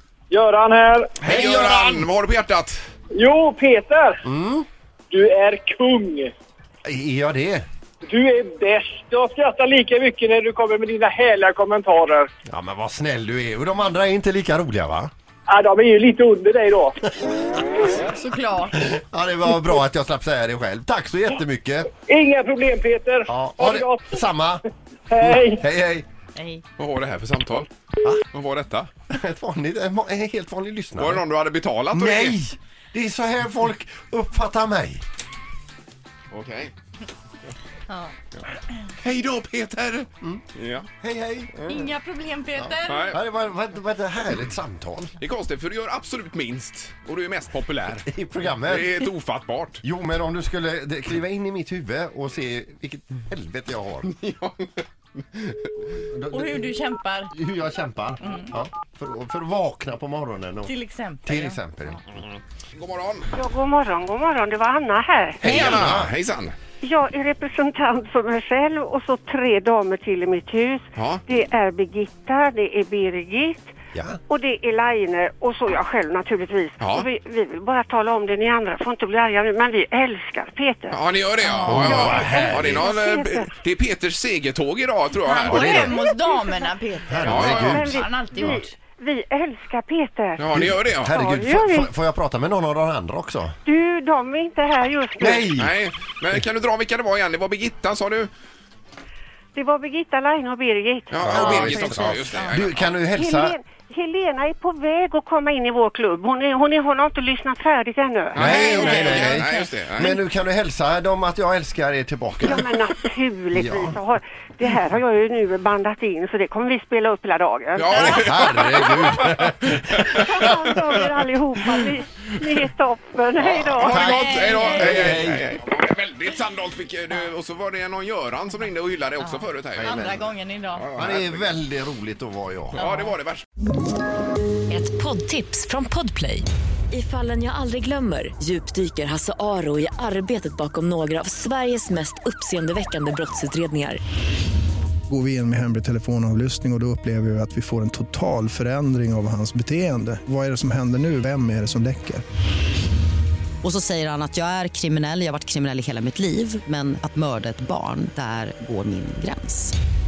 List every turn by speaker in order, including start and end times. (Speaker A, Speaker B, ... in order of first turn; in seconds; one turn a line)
Speaker A: 0.3-1.4
Speaker B: 1.2-2.8
Speaker C: 1.3-1.7
Speaker A: 3.1-4.2
Speaker C: 4.3-4.7
Speaker A: 5.1-6.3
Speaker C: 6.8-7.7
Speaker A: 8.1-12.3
Speaker C: 12.5-15.1
Speaker A: 15.5-16.9
Speaker C: 17.1-18.0
Speaker D: 18.3-18.7
Speaker C: 18.7-21.9
Speaker A: 22.1-24.2
Speaker C: 23.3-24.6
Speaker A: 25.1-25.6
Speaker C: 25.2-26.1
Speaker B: 26.8-27.7
Speaker B: 28.3-28.9
Speaker C: 29.1-31.2
Speaker B: 31.0-32.4
Speaker C: 31.9-35.0
Speaker B: 36.3-36.7
Speaker B: 39.0-40.9
Speaker C: 41.0-41.7
Speaker B: 41.5-41.8
Speaker E: 41.9-42.5
Speaker C: 42.5-45.1
Speaker B: 42.9-43.2
Speaker B: 45.2-49.8
Speaker C: 48.1-49.0
Speaker C: 49.8-54.1
Speaker B: 54.2-54.8
Speaker C: 55.9-62.2
Speaker D: 56.3-57.1
Speaker D: 60.9-61.4
Speaker B: 62.8-63.3
Speaker F: 63.3-65.4
Speaker C: 65.4-66.1
Speaker B: 65.4-66.5
Speaker F: 66.8-73.7
Speaker B: 71.0-71.2
Speaker C: 73.9-74.2
Speaker F: 74.3-81.0
Speaker B: 76.8-77.1
Speaker B: 80.9-85.9
Speaker C: 81.6-82.9
Speaker F: 81.8-83.5
Speaker D: 85.3-86.1
Speaker C: 85.5-86.0
Speaker F: 85.7-90.5
Speaker E: 85.7-88.6
Speaker D: 87.0-88.4
Speaker C: 87.1-88.6
Speaker B: 87.2-87.8
Speaker B: 90.4-91.1
Speaker C: 90.5-93.5
Speaker F: 91.1-91.9
Speaker F: 93.7-95.5
Speaker C: 95.2-95.7
Speaker B: 95.5-98.3
Speaker F: 99.5-101.8
Speaker B: 101.1-103.0
Speaker C: 101.2-103.6
Speaker E: 101.7-102.0
Speaker F: 103.1-109.3
Speaker B: 108.3-110.2
Speaker C: 108.3-112.7
Speaker F: 112.4-118.3
Speaker C: 113.5-114.0
Speaker B: 117.8-120.4
Speaker C: 117.9-120.5
Speaker F: 120.0-124.2
Speaker B: 123.4-130.0
Speaker C: 123.8-125.4
Speaker E: 124.4-124.9
Speaker C: 129.8-130.3
Speaker E: 129.9-130.8
Speaker B: 130.7-131.6
Speaker C: 130.9-132.8
Speaker B: 132.8-133.4
Speaker E: 134.7-144.0
Speaker G: 145.1-152.2
Speaker H: 153.6-159.7